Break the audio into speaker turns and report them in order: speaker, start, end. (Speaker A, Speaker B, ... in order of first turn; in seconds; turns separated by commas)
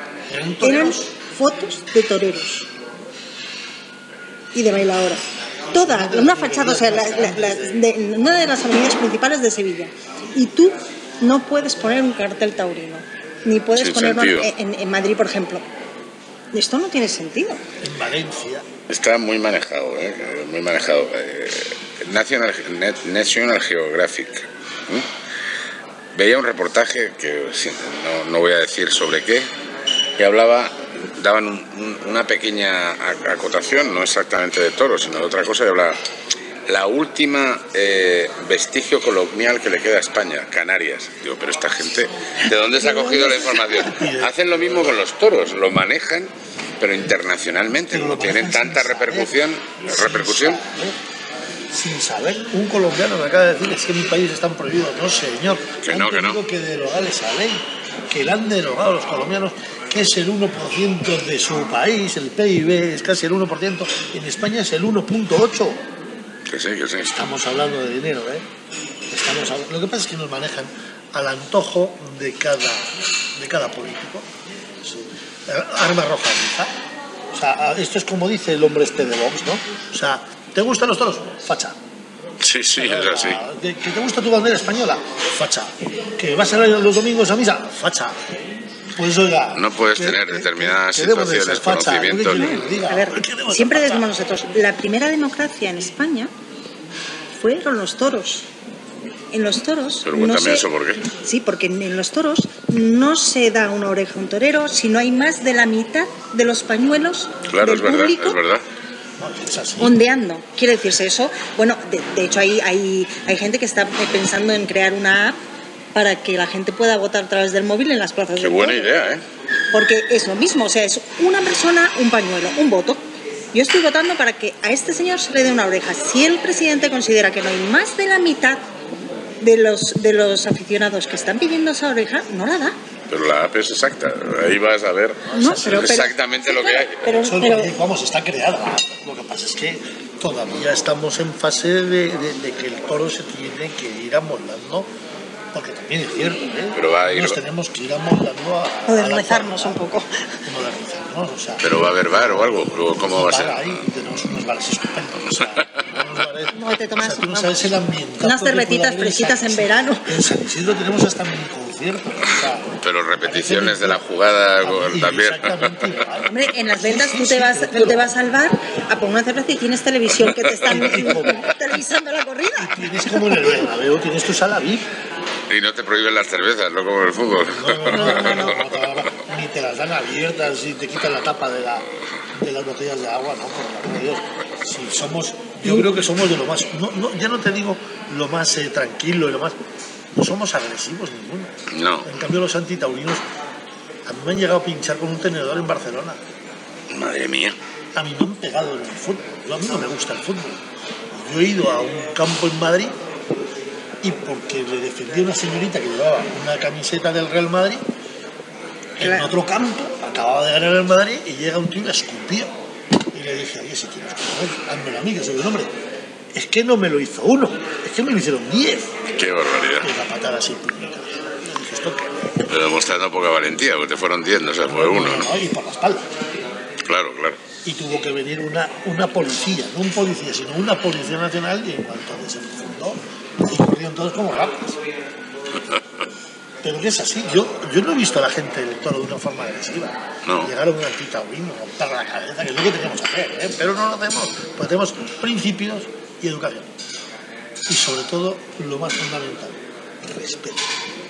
Speaker A: 0.3-1.1, Speaker B: 0.6-2.7, Speaker B: 4.5-5.2, Speaker B: 5.7-15.6, Speaker A: 5.7-7.8, Speaker C: 13.7-14.5, Speaker B: 16.5-17.6, Speaker A: 17.8-18.6, Speaker C: 18.9-25.1, Speaker C: 26.1-29.5, Speaker C: 30.2-36.0, Speaker C: 36.7-50.6, Speaker A: 42.8-45.0, Speaker A: 47.8-49.3, Speaker A: 49.8-51.0, Speaker A: 51.7-65.8, Speaker C: 55.8-56.4, Speaker C: 66.5-67.1, Speaker A: 67.0-68.5, Speaker A: 69.1-74.2, Speaker A: 74.8-76.7, Speaker A: 77.3-81.8, Speaker C: 82.4-83.4, Speaker A: 82.7-88.3, Speaker A: 89.0-94.1, Speaker C: 89.5-92.5, Speaker B: 92.3-96.3, Speaker B: 97.4-98.5, Speaker B: 99.3-100.6, Speaker C: 100.0-101.1, Speaker B: 101.2-108.4, Speaker C: 107.5-108.6, Speaker A: 109.2-110.0, Speaker B: 109.8-115.4, Speaker B: 115.9-118.9, Speaker C: 118.4-119.2, Speaker B: 119.7-123.0, Speaker B: 123.5-128.7, Speaker B: 129.4-132.8, Speaker C: 133.1-137.1, Speaker A: 135.3-136.0, Speaker B: 135.3-137.7, Speaker A: 137.2-144.9, Speaker A: 145.5-149.8, Speaker C: 146.7-147.4, Speaker B: 148.9-150.1, Speaker A: 150.4-164.0, Speaker C: 151.6-153.8, Speaker C: 155.2-155.6, Speaker B: 156.5-157.7, Speaker B: 158.2-160.2, Speaker C: 162.8-165.9, Speaker A: 164.6-168.1, Speaker B: 166.3-172.8, Speaker A: 170.7-171.4, Speaker A: 172.6-174.8, Speaker C: 175.5-178.6, Speaker A: 177.5-189.6, Speaker B: 177.9-178.5, Speaker A: 190.1-191.5, Speaker C: 191.7-192.1, Speaker A: 192.0-193.2, Speaker A: 194.1-196.2, Speaker C: 196.9-197.6, Speaker A: 197.9-200.6, Speaker A: 201.1-202.9, Speaker A: 204.0-207.8, Speaker A: 209.0-212.5, Speaker B: 209.0-209.3, Speaker A: 213.1-215.7, Speaker A: 216.3-218.9, Speaker C: 219.2-219.9, Speaker A: 219.8-222.4, Speaker C: 222.5-225.3, Speaker A: 224.7-226.1, Speaker C: 226.9-227.4, Speaker A: 227.6-234.8, Speaker A: 236.6-246.7, Speaker C: 240.2-240.5, Speaker A: 247.7-250.7